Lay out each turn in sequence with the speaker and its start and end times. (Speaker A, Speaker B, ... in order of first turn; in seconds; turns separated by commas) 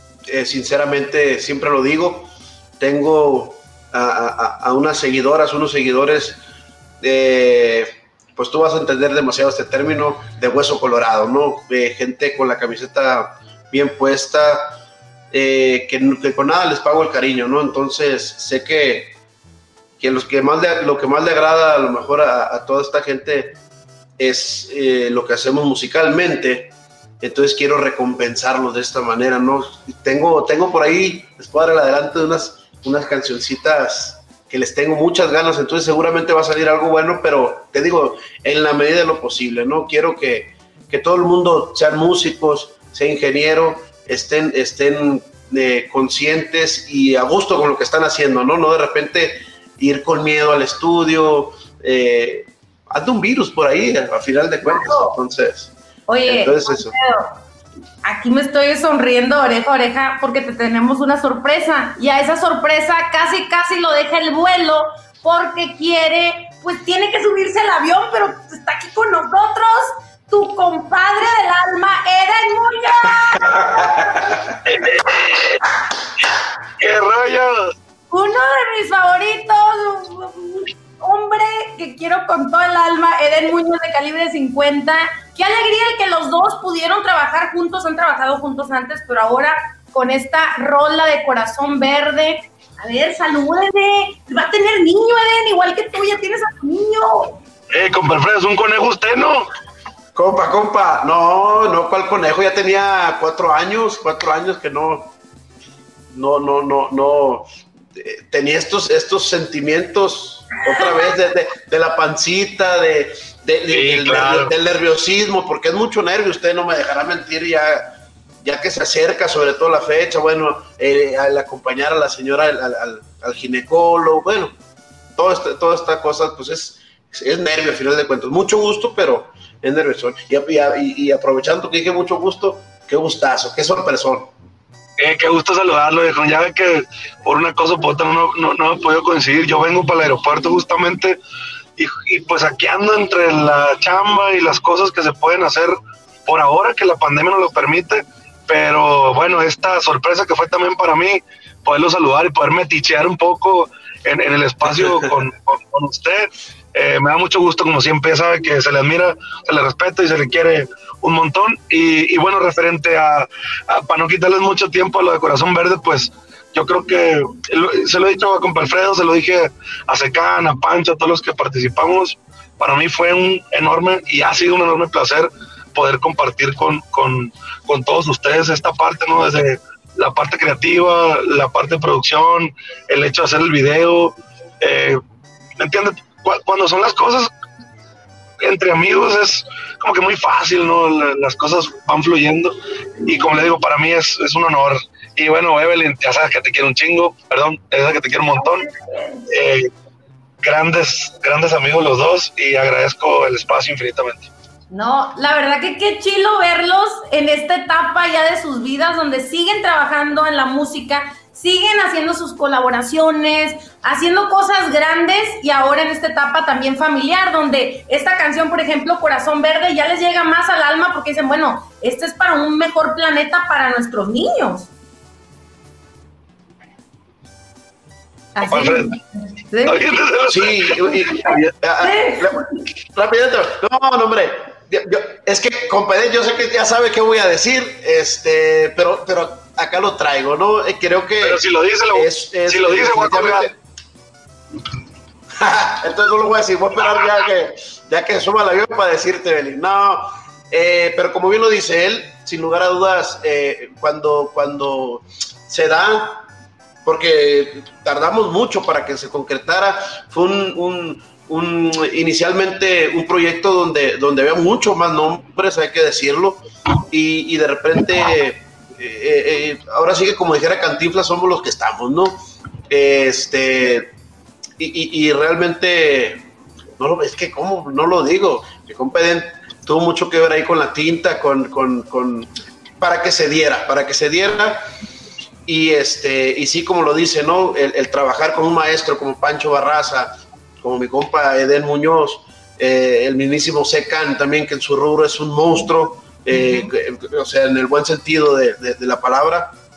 Speaker A: 0.3-6.4, Speaker A: 7.0-19.2, Speaker A: 20.0-23.6, Speaker A: 24.2-55.7, Speaker B: 54.6-55.2, Speaker B: 56.1-57.4, Speaker A: 56.3-56.9, Speaker B: 58.0-74.3, Speaker A: 73.3-74.6, Speaker C: 74.7-75.6, Speaker C: 76.8-77.7, Speaker B: 78.1-97.4, Speaker C: 97.7-99.5, Speaker A: 100.2-105.1, Speaker A: 106.1-124.5, Speaker C: 113.7-114.5, Speaker A: 125.2-134.3, Speaker C: 135.0-141.2, Speaker C: 141.8-185.0, Speaker C: 185.6-187.3, Speaker C: 188.4-198.7, Speaker B: 198.4-199.2, Speaker C: 199.3-199.7, Speaker C: 200.4-204.3, Speaker B: 204.7-224.7, Speaker B: 228.3-229.8, Speaker C: 228.5-228.9, Speaker C: 229.6-231.5, Speaker A: 230.3-243.6, Speaker B: 231.8-232.6, Speaker C: 241.2-243.5, Speaker A: 245.4-256.2, Speaker A: 256.8-273.9, Speaker A: 274.6-276.3, Speaker A: 276.8-284.7, Speaker A: 285.5-299.6, Speaker B: 296.3-296.7